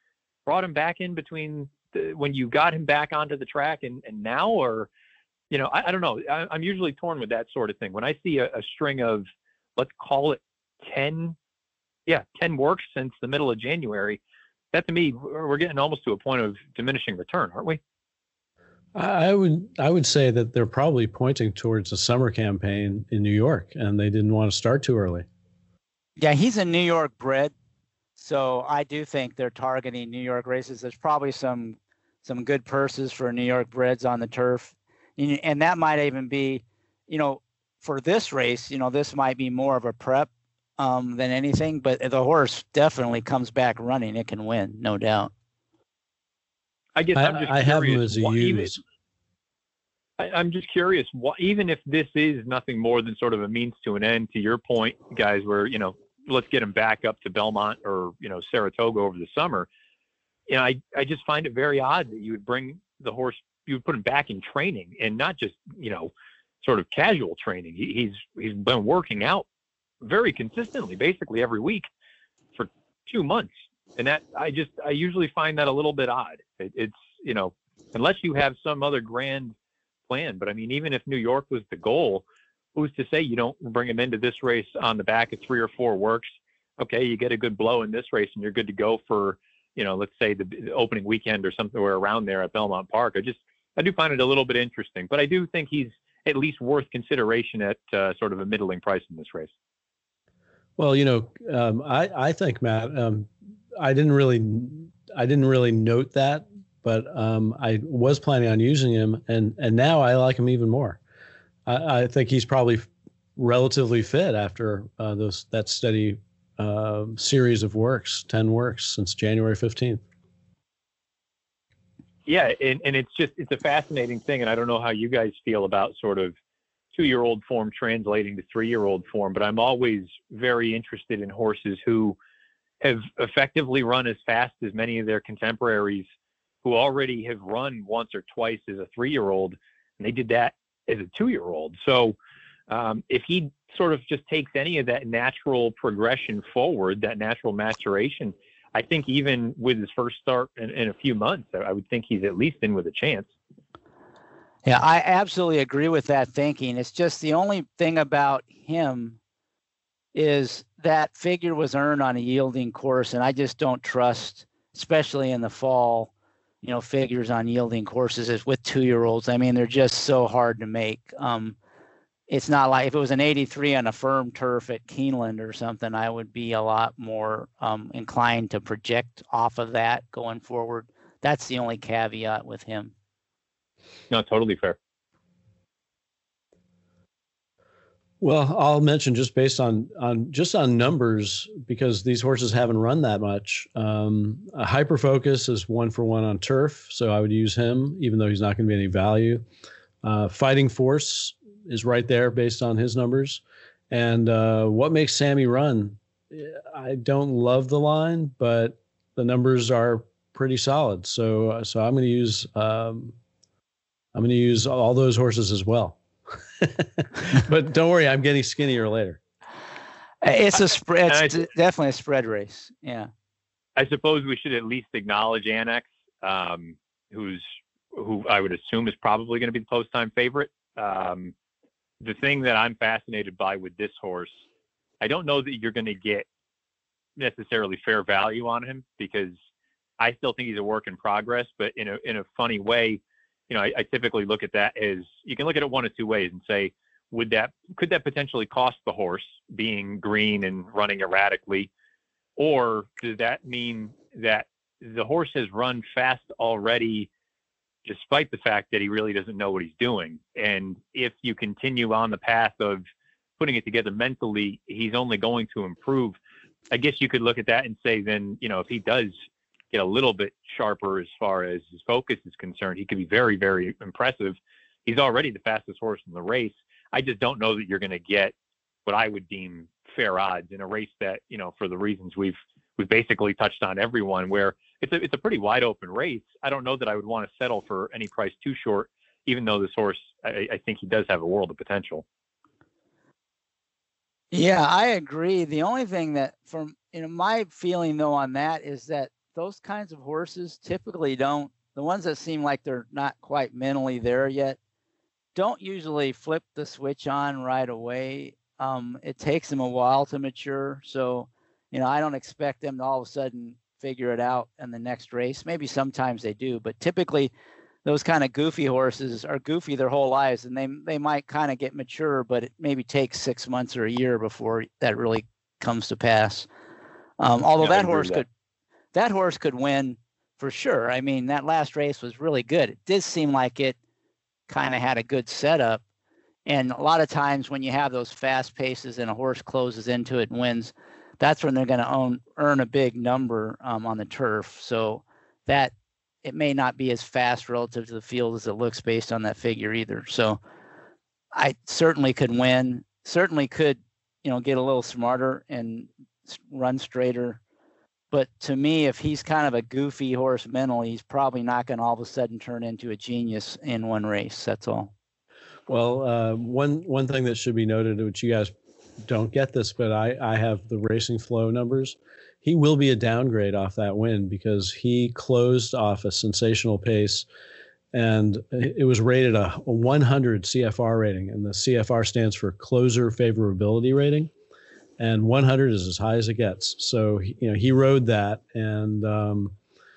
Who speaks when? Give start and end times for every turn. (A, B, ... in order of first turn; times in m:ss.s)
0:00.4-0:04.9 A
0:05.5-0:09.2 A
0:09.8-0:11.4 A
0:12.1-0:14.2 A
0:14.7-0:17.8 A
0:18.9-0:25.2 B
0:26.2-0:27.5 C
0:28.2-0:45.3 C
0:47.0-0:48.7 A
0:47.2-0:48.8 B
0:50.2-0:59.7 A
1:00.5-1:06.1 A
1:06.6-1:09.4 A
1:10.0-1:11.8 A
1:12.5-1:19.5 A
1:20.1-1:22.2 A
1:22.7-1:26.2 A
1:26.8-1:39.5 A
1:40.8-1:51.0 B
1:51.6-2:00.0 B
2:02.2-2:06.3 A
2:06.9-2:12.2 A
2:12.8-2:16.0 A
2:16.6-2:22.1 A
2:22.7-2:33.3 A
2:34.6-2:39.2 C
2:40.1-2:46.1 C
2:46.6-2:51.6 C
2:52.3-3:02.9 C
3:04.1-3:04.8 A
3:08.2-3:19.4 B
3:20.0-3:33.1 B
3:34.1-3:36.0 B
3:36.6-3:39.2 B
3:40.2-3:43.1 C
3:43.8-3:51.3 A
3:52.0-3:54.3 A
3:55.0-3:56.2 A
3:57.2-3:59.3 A
4:00.0-4:11.7 A
4:12.4-4:17.1 A
4:17.8-4:22.8 A
4:23.4-4:26.2 A
4:26.7-4:29.1 A
4:29.7-4:38.3 A
4:38.8-4:52.0 A
4:54.3-5:04.6 C
5:05.4-5:17.3 C
5:17.8-5:26.5 C
5:27.2-5:28.3 C
5:27.6-5:28.2 A
5:28.9-5:33.8 C
5:34.5-5:35.8 C
5:36.5-5:45.7 C
5:46.2-5:50.4 C
5:51.3-5:57.4 C
5:58.1-6:04.9 C
6:05.7-6:17.2 B
6:17.9-6:24.3 B
6:25.0-6:29.5 B